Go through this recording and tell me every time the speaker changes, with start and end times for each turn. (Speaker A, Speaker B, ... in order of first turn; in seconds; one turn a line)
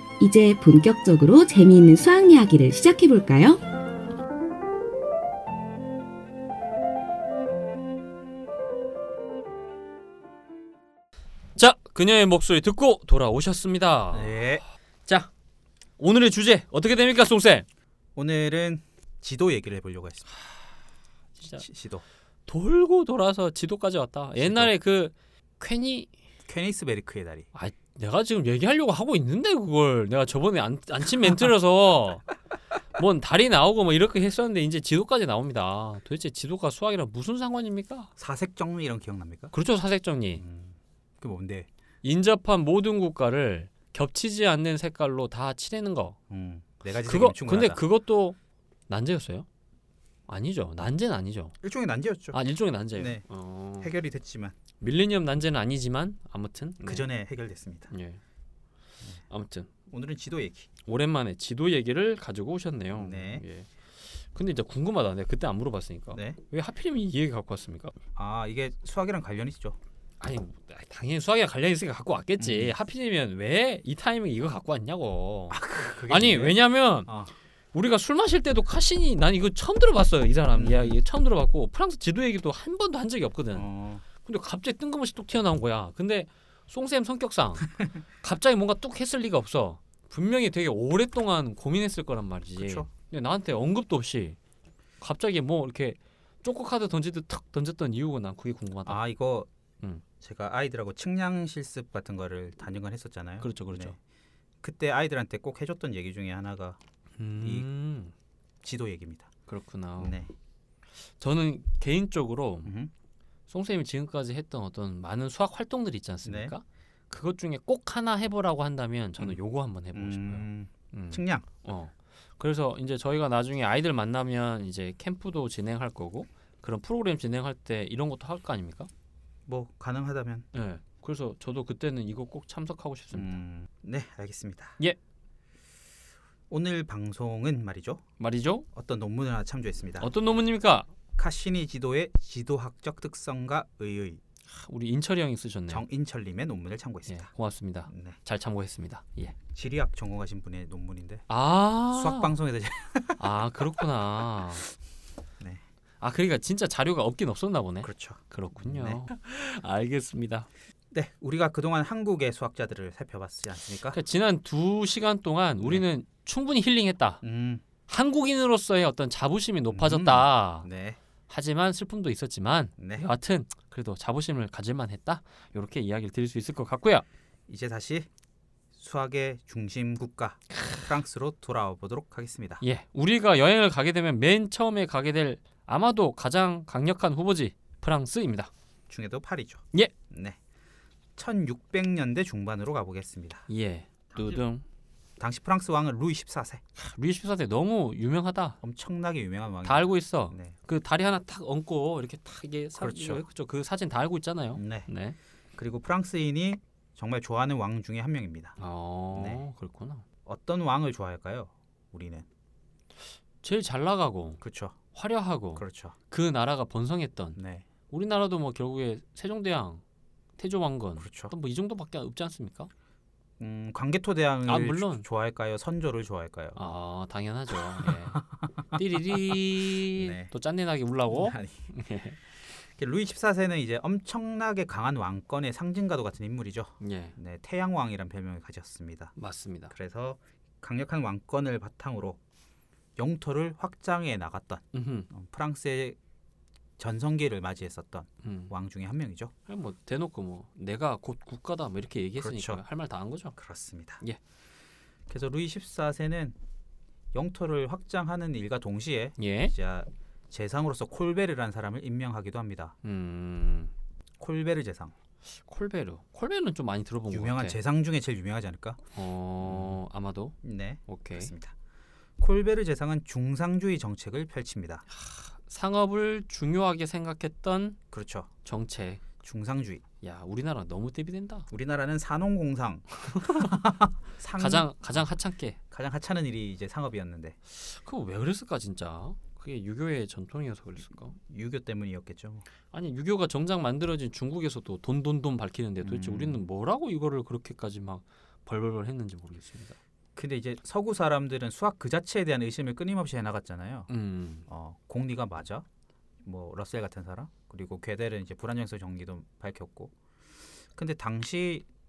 Speaker A: 0.2-3.6
Speaker B: 11.6-14.5
Speaker C: 14.1-14.6
Speaker B: 16.0-17.6
Speaker C: 18.2-20.3
Speaker B: 21.4-21.7
Speaker C: 21.6-22.0
Speaker B: 22.5-26.1
Speaker C: 24.4-24.7
Speaker C: 26.5-27.5
Speaker B: 27.5-32.3
Speaker B: 33.0-38.1
Speaker C: 38.2-39.5
Speaker B: 39.5-40.4
Speaker C: 40.4-41.7
Speaker B: 42.0-46.2
Speaker C: 46.3-47.8
Speaker B: 47.0-48.4
Speaker B: 48.9-49.5
Speaker B: 50.3-51.5
Speaker C: 51.6-52.4
Speaker B: 52.3-53.9
Speaker C: 52.9-53.2
Speaker C: 53.8-54.6
Speaker B: 54.8-57.1
Speaker C: 56.8-57.9
Speaker B: 57.9-58.2
Speaker B: 59.3-59.7
Speaker C: 59.9-60.7
Speaker B: 60.9-67.9
Speaker C: 63.0-63.4
Speaker C: 68.2-69.8
Speaker B: 70.2-77.1
Speaker C: 72.4-72.8
Speaker C: 75.5-77.3
Speaker B: 77.7-83.7
Speaker C: 80.5-81.0
Speaker C: 83.5-84.0
Speaker B: 84.2-94.4
Speaker C: 92.6-92.9
Speaker B: 95.0-99.0
Speaker C: 98.9-99.5
Speaker C: 100.2-104.0
Speaker B: 103.4-104.0
Speaker C: 104.6-106.8
Speaker B: 107.2-108.1
Speaker C: 107.4-107.7
Speaker C: 108.6-109.3
Speaker B: 109.5-110.2
Speaker C: 110.0-110.3
Speaker B: 111.1-112.7
Speaker C: 112.7-112.9
Speaker B: 113.5-128.9
Speaker C: 116.2-116.5
Speaker C: 119.9-121.5
Speaker C: 129.5-130.5
Speaker B: 130.5-133.4
Speaker C: 133.1-134.8
Speaker C: 136.5-138.0
Speaker B: 138.2-138.7
Speaker C: 138.7-140.1
Speaker B: 140.0-140.9
Speaker C: 141.2-144.2
Speaker B: 144.5-145.8
Speaker C: 145.7-147.3
Speaker B: 147.1-149.4
Speaker C: 147.9-148.2
Speaker C: 149.5-151.2
Speaker B: 151.3-152.4
Speaker C: 151.9-153.2
Speaker B: 153.2-154.7
Speaker B: 156.0-160.5
Speaker C: 157.8-159.0
Speaker C: 160.9-164.0
Speaker B: 163.9-167.2
Speaker C: 167.2-167.6
Speaker B: 167.9-170.7
Speaker C: 169.7-171.0
Speaker B: 171.3-177.1
Speaker C: 172.8-173.1
Speaker C: 177.5-178.1
Speaker C: 178.7-182.6
Speaker B: 182.6-188.5
Speaker C: 188.9-190.4
Speaker C: 191.2-193.5
Speaker B: 193.5-194.6
Speaker C: 194.1-194.4
Speaker C: 195.2-196.6
Speaker B: 196.8-198.6
Speaker C: 198.6-200.6
Speaker B: 199.6-205.2
Speaker C: 202.8-203.2
Speaker C: 204.6-204.9
Speaker C: 205.6-208.6
Speaker B: 208.6-210.0
Speaker C: 209.1-209.4
Speaker C: 210.3-212.3
Speaker B: 213.4-214.4
Speaker C: 214.4-214.8
Speaker B: 214.9-217.4
Speaker C: 215.6-215.9
Speaker C: 217.4-217.7
Speaker B: 217.9-219.8
Speaker B: 220.4-222.7
Speaker C: 221.0-221.3
Speaker C: 223.4-226.6
Speaker B: 224.5-225.1
Speaker B: 226.6-228.2
Speaker C: 227.8-228.5
Speaker B: 228.7-232.2
Speaker C: 229.8-230.3
Speaker C: 231.1-231.7
Speaker C: 232.5-239.1
Speaker B: 236.8-237.2
Speaker B: 239.2-239.7
Speaker C: 239.7-242.2
Speaker C: 243.0-246.0
Speaker B: 244.7-245.1
Speaker C: 246.8-249.3
Speaker B: 248.2-248.5
Speaker B: 249.5-253.4
Speaker C: 252.2-252.6
Speaker C: 253.4-254.0
Speaker C: 255.1-256.4
Speaker C: 257.1-262.8
Speaker B: 259.2-259.5
Speaker B: 262.8-263.7
Speaker C: 264.2-264.9
Speaker B: 265.4-267.6
Speaker C: 267.1-268.8
Speaker B: 268.9-270.4
Speaker C: 269.4-269.8
Speaker C: 270.4-271.5
Speaker B: 270.9-271.3
Speaker C: 272.2-274.9
Speaker B: 274.9-277.8
Speaker C: 277.9-278.3
Speaker B: 278.4-279.0
Speaker C: 279.2-279.8
Speaker B: 280.0-281.5
Speaker C: 281.5-285.1
Speaker B: 283.0-283.6
Speaker B: 284.4-285.6
Speaker C: 285.7-287.4
Speaker B: 287.5-291.2
Speaker C: 291.2-292.5
Speaker B: 292.7-299.8
Speaker C: 295.8-296.4
Speaker C: 300.2-303.9
Speaker B: 303.9-304.5
Speaker C: 304.5-305.7
Speaker C: 306.2-309.9
Speaker C: 310.8-311.7